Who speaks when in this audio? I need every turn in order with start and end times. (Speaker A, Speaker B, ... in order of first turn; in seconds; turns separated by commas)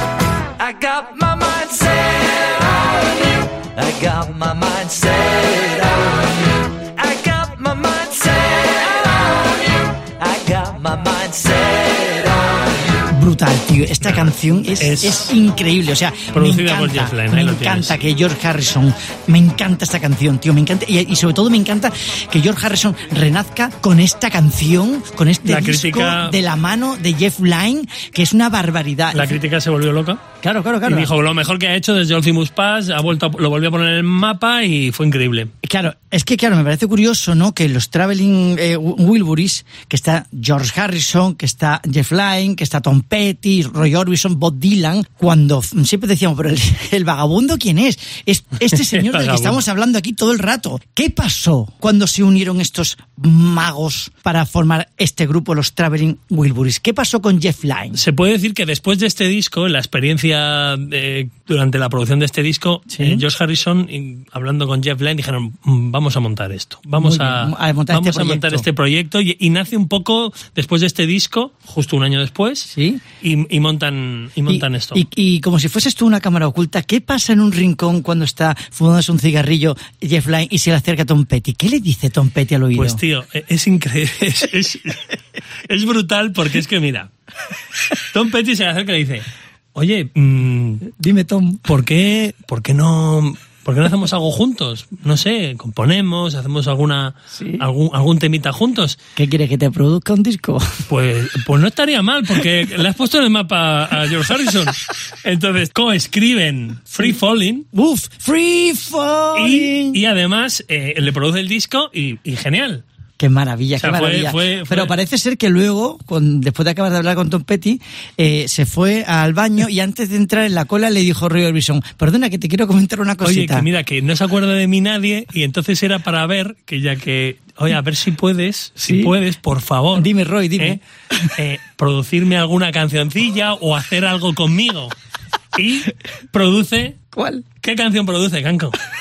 Speaker A: 0.6-12.7, Speaker B: 13.1-29.4, Speaker C: 14.0-15.3, Speaker C: 16.3-18.0, Speaker C: 25.5-26.4, Speaker C: 29.1-30.2, Speaker B: 30.4-31.1, Speaker C: 30.9-35.5, Speaker B: 35.6-58.0, Speaker C: 48.8-49.6, Speaker C: 57.9-75.0, Speaker B: 62.9-63.2, Speaker B: 67.0-68.7, Speaker B: 72.7-73.0, Speaker B: 74.5-83.0, Speaker C: 82.8-87.1, Speaker C: 87.9-90.9, Speaker B: 90.9-91.7, Speaker C: 91.7-99.0, Speaker B: 97.3-97.7, Speaker B: 99.2-100.8, Speaker C: 100.9-107.7, Speaker B: 107.7-110.0, Speaker C: 109.3-112.8, Speaker B: 113.2-123.7, Speaker C: 113.8-114.9, Speaker C: 123.2-130.1, Speaker B: 128.8-129.2, Speaker B: 130.0-131.3, Speaker C: 131.4-134.9, Speaker C: 135.6-137.0, Speaker B: 137.1-137.5, Speaker C: 137.6-138.8